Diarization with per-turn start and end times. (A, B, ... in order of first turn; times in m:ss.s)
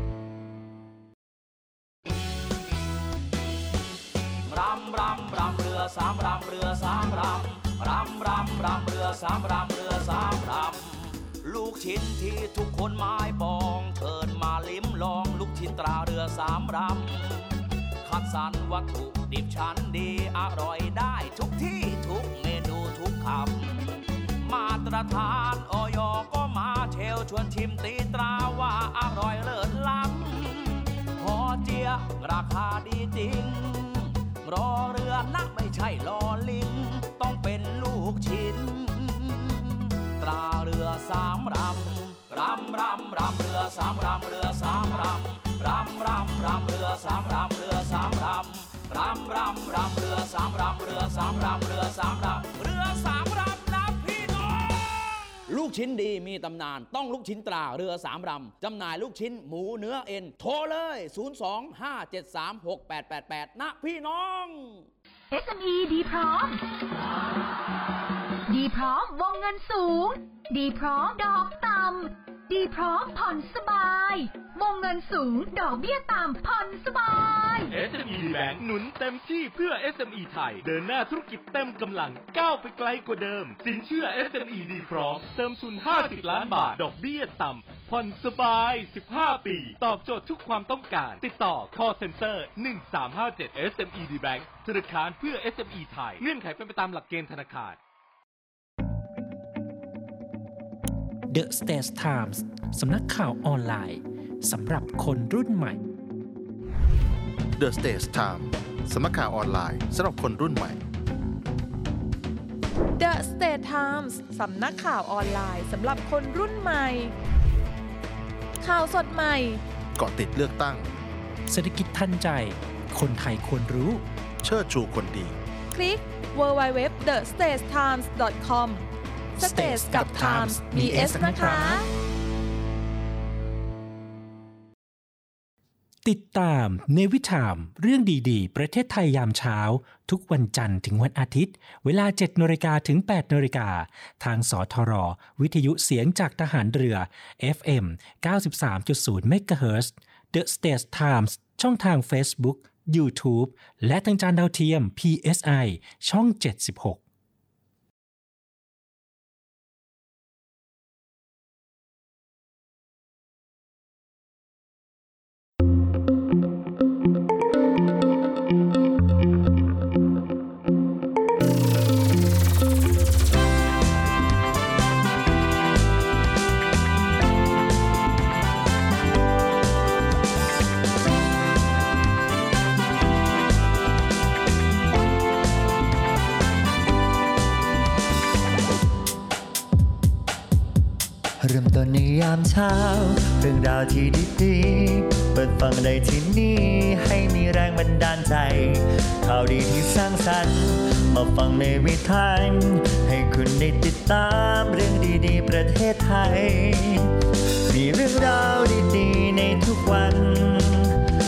0:04.4-1:04.9 A
1:05.3-1:06.6 B
1:08.5-1:17.7 B
1:17.7-1:37.8 C
1:41.3-1:45.8 D
1:47.6-1:50.8 E
1:53.0-1:57.1 F
1:58.6-1:59.6 F
2:00.0-2:00.9 E
2:01.5-2:04.0 D
2:04.4-2:05.4 E
2:05.7-2:08.8 F
2:09.4-2:11.9 F
2:09.4-2:11.8 D
2:16.0-2:37.0 D
3:11.4-3:27.1 G
3:27.7-3:31.0 G